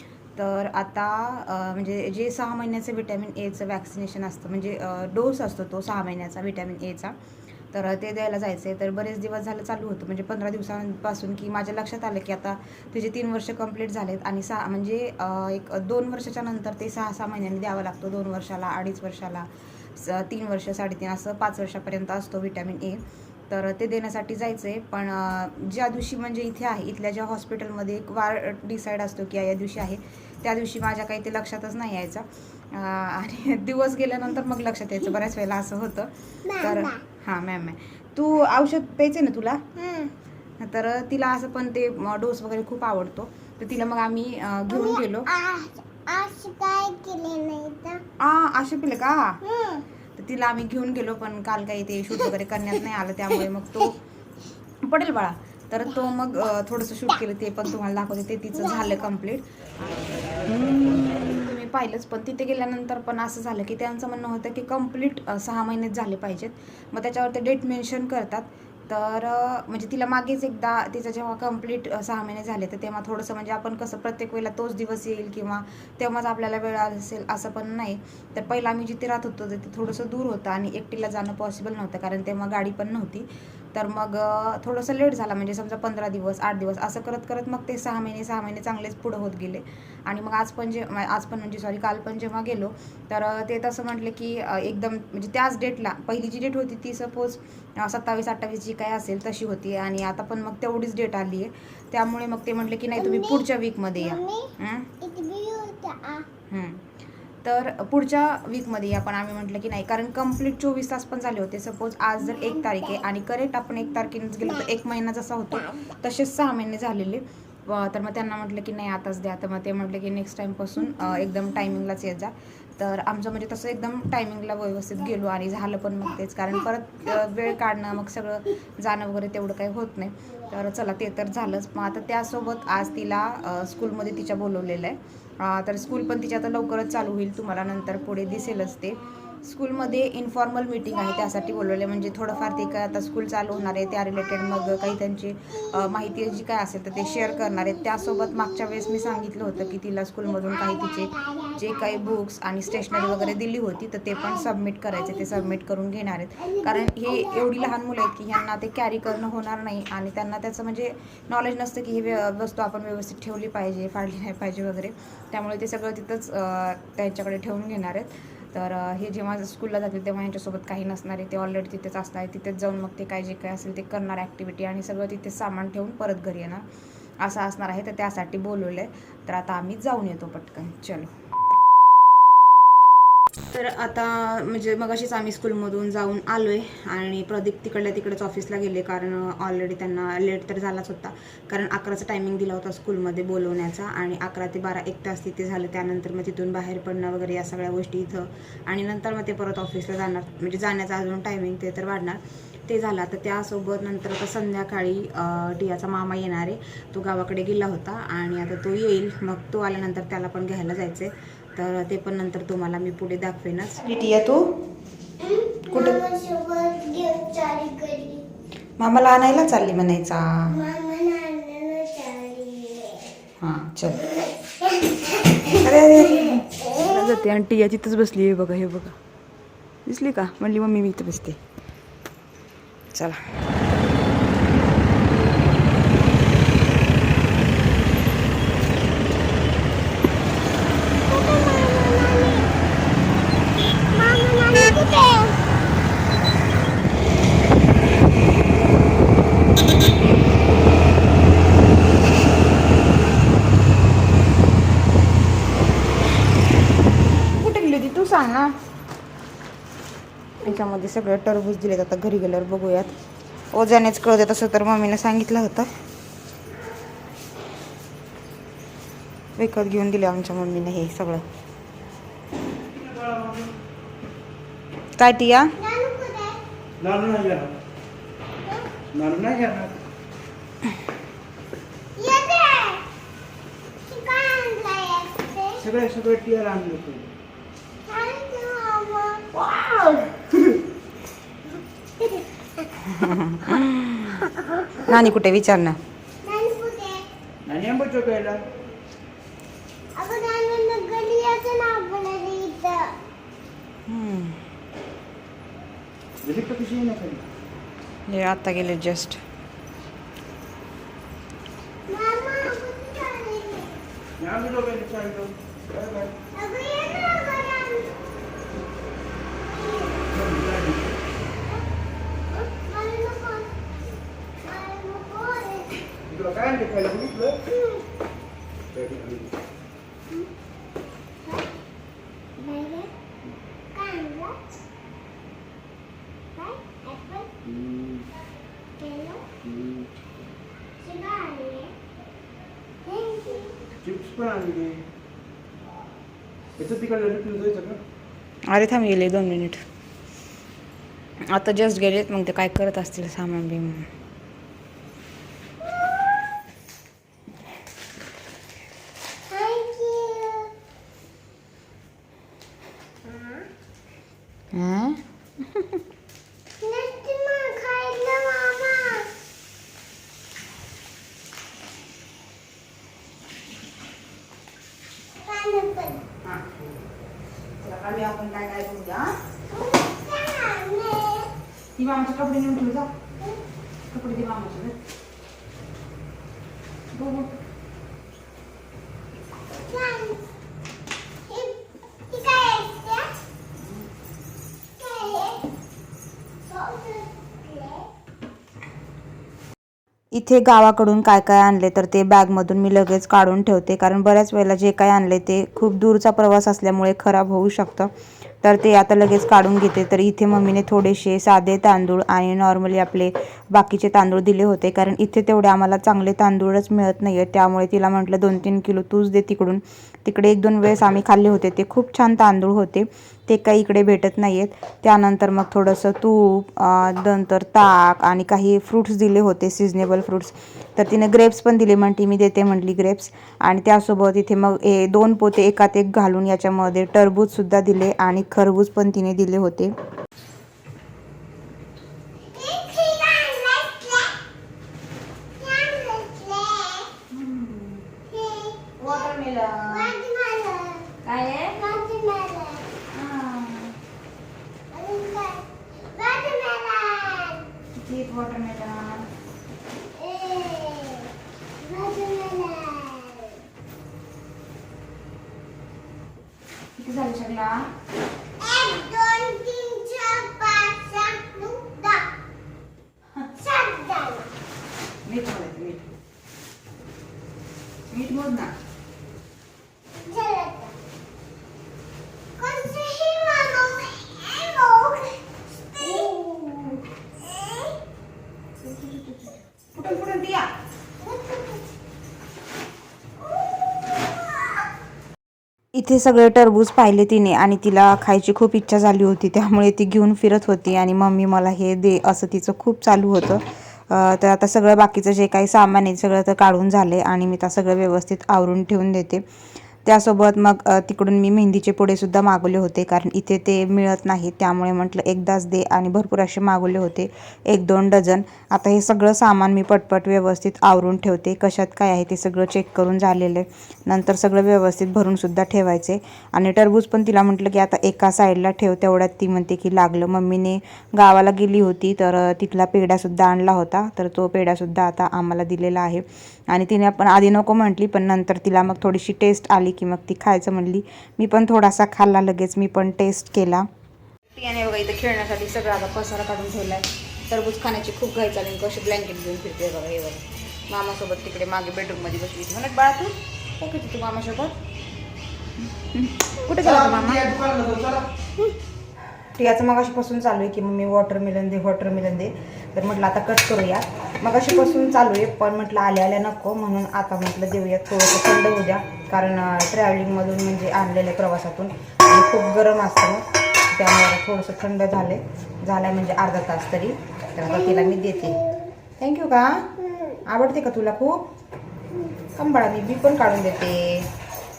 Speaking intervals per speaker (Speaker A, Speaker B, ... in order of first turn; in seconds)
Speaker A: 0.3-7.1, 7.7-39.6, 40.6-45.3, 48.2-49.4, 50.1-54.0, 54.8-104.9, 106.5-106.8, 107.4-176.7, 177.2-181.1, 183.5-214.5, 215.7-216.0, 218.8-220.5, 223.4-224.1, 225.5-228.9, 229.8-231.4, 232.9-233.2, 257.3-258.5, 260.4-262.9, 263.5-265.7, 269.4-271.2, 275.0-275.5, 292.8-294.2, 294.8-295.8, 303.9-304.4, 308.1-309.2, 348.5-349.6, 351.3-353.9, 364.5-365.8, 377.6-379.1, 381.8-382.9, 383.9-384.7, 386.9-387.4, 400.1-407.9, 408.4-439.7, 447.1-447.9, 448.8-449.9, 452.9-453.7, 457.7-459.0, 466.8-467.6, 475.0-475.9, 477.9-478.5, 485.8-486.8, 488.6-490.5, 495.7-509.2, 509.8-543.6, 544.3-554.5, 555.8-557.3, 559.3-578.3, 579.0-579.7, 580.2-581.2, 582.4-584.1
Speaker B: 36.5-37.0, 39.8-40.1, 44.7-48.0, 49.4-49.8, 103.0-103.4, 104.0-106.3, 147.8-148.4, 150.5-152.0, 156.6-157.5, 215.2-218.2, 220.5-223.1, 241.0-242.5, 243.9-245.4, 275.6-276.4, 278.4-278.8, 282.0-282.8, 283.9-285.6, 287.9-290.1, 292.0-292.7, 294.3-294.6, 296.2-297.0, 299.9-302.9, 311.9-313.8, 316.3-317.9, 319.5-320.2, 322.3-323.5, 324.4-325.8, 327.4-327.8, 331.2-331.5, 332.4-332.9, 333.7-334.5, 336.3-337.3, 338.8-339.4, 340.8-341.7, 342.8-343.6, 359.3-360.5, 363.1-363.4, 366.6-369.1, 375.2-376.0, 379.5-381.3, 389.5-390.2, 391.3-391.6, 392.1-393.1, 394.8-395.4, 396.4-397.9, 442.3-444.1, 445.4-446.9, 448.1-449.1, 449.7-452.7, 454.7-457.5, 459.9-463.4, 468.4-472.1, 473.3-474.3, 480.0-480.7, 482.4-485.9, 487.2-487.7, 491.0-491.7, 577.4-578.7
Speaker C: 272.7-273.5, 276.8-277.6, 278.9-279.8, 285.6-287.1, 297.4-298.4, 306.2-307.2, 314.2-316.1, 320.1-320.9, 326.1-327.4, 328.7-329.3, 337.5-338.0, 339.6-339.8, 343.8-344.8, 346.6-347.8, 556.6-558.1